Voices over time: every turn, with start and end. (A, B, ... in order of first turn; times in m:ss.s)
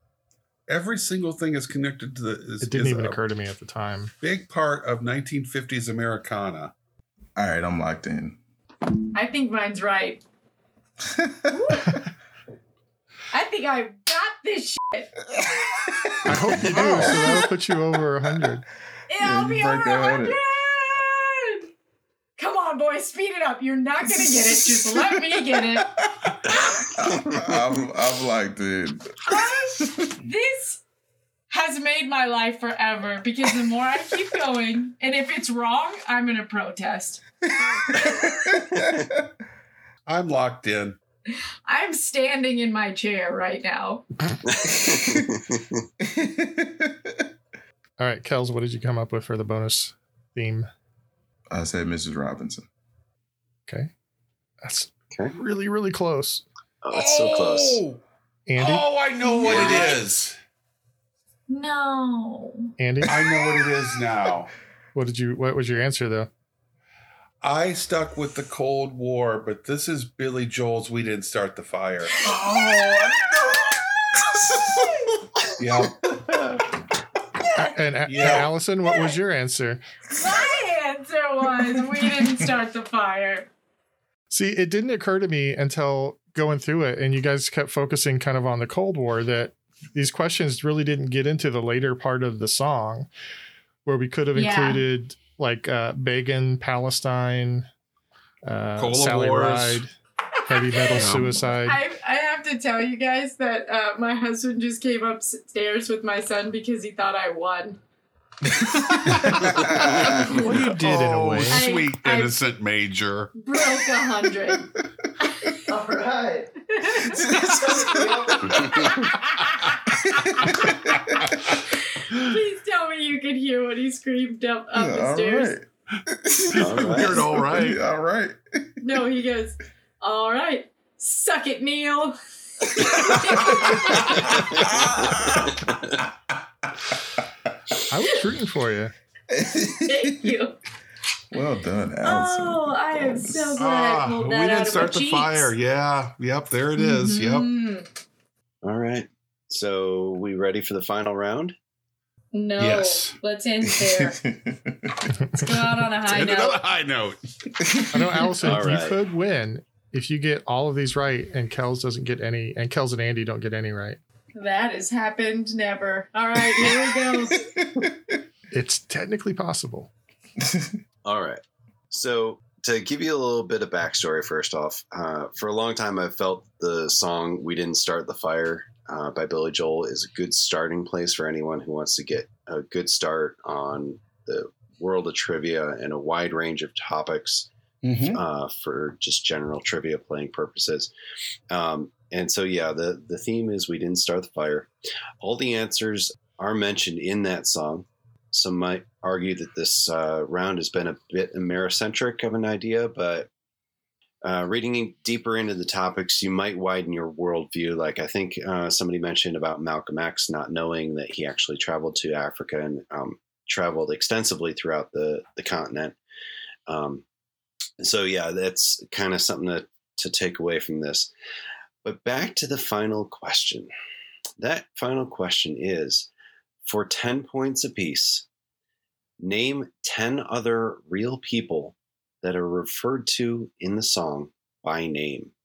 0:00.7-0:03.2 A
0:02.6-0:04.1 B
0:04.2-0:06.7 A
0:07.4-0:08.4 C
0:09.1-0:10.2 D
0:11.0-0:11.8 C
0:11.5-0:11.9 D
0:13.3-0:15.2 D
0:16.0-0:17.5 C
0:16.3-0:18.6 B
0:19.1-0:21.7 D
0:19.2-0:20.4 C
0:22.4-0:25.9 D
0:24.1-0:30.1 C
0:27.2-0:27.6 E
0:29.3-0:30.8 D
0:31.5-0:37.2 D
0:37.6-0:39.2 C
0:40.0-0:41.0 A
0:41.7-0:44.0 D
0:44.4-0:45.6 E
0:46.0-0:47.2 C
0:48.0-0:50.7 B
0:51.5-0:52.7 C
0:54.6-0:56.4 B
0:56.8-0:57.8 E
0:56.9-0:58.0 A
0:58.5-0:58.9 B
0:58.6-1:00.4 A
0:59.2-1:00.0 D
0:59.5-0:59.8 E
1:01.5-1:02.7 D
1:02.8-1:03.3 B
1:03.0-1:04.5 A
1:04.9-1:06.3 B
1:07.4-1:12.2 A
1:12.2-1:15.3 C
1:12.2-1:13.6 D
1:15.6-1:16.2 A
1:17.6-1:19.8 B
1:18.0-1:18.5 A
1:18.9-1:19.1 D
1:20.1-1:23.5 D
1:24.3-1:33.1 B
1:33.8-1:37.7 B
1:34.3-1:34.8 D
1:38.4-1:39.9 B
1:38.8-1:39.8 A
1:40.5-1:41.8 B
1:40.5-1:47.8 D
1:41.0-1:41.3 A
1:49.0-1:53.3 A
1:49.4-1:50.1 C
1:50.3-1:51.7 B
1:51.5-1:52.4 D
1:53.4-1:54.7 D
1:55.2-2:00.8 D
1:57.1-1:58.7 C
2:00.2-2:01.3 C
2:01.7-2:05.5 D
2:04.7-2:09.0 C
2:06.6-2:07.2 E
2:06.6-2:07.8 A
2:08.8-2:12.2 D
2:12.7-2:14.3 D
2:14.2-2:15.6 C
2:15.5-2:15.8 E
2:17.9-2:18.9 B
2:19.3-2:20.3 C
2:19.8-2:20.6 D
2:21.3-2:23.7 C
2:22.0-2:25.5 D
2:23.6-2:27.5 A
2:26.8-2:27.9 D
2:28.6-2:31.6 E
2:32.3-2:34.2 D
2:32.6-2:33.2 A
2:33.7-2:35.5 C
2:35.3-2:36.6 D
2:36.0-2:37.6 A
2:37.9-2:44.0 B
2:38.4-2:39.0 E
2:44.3-2:47.5 D
2:46.6-2:48.2 C
2:48.5-2:49.9 B
2:50.4-2:50.8 C
2:51.0-3:10.9 E
3:07.8-3:08.2 A
3:11.5-3:23.3 E
3:24.2-3:36.0 E
3:36.7-3:37.0 E
3:37.8-3:41.1 E
3:41.8-3:43.7 E
3:44.4-3:46.1 E
3:46.6-3:48.3 E
3:49.2-3:55.3 E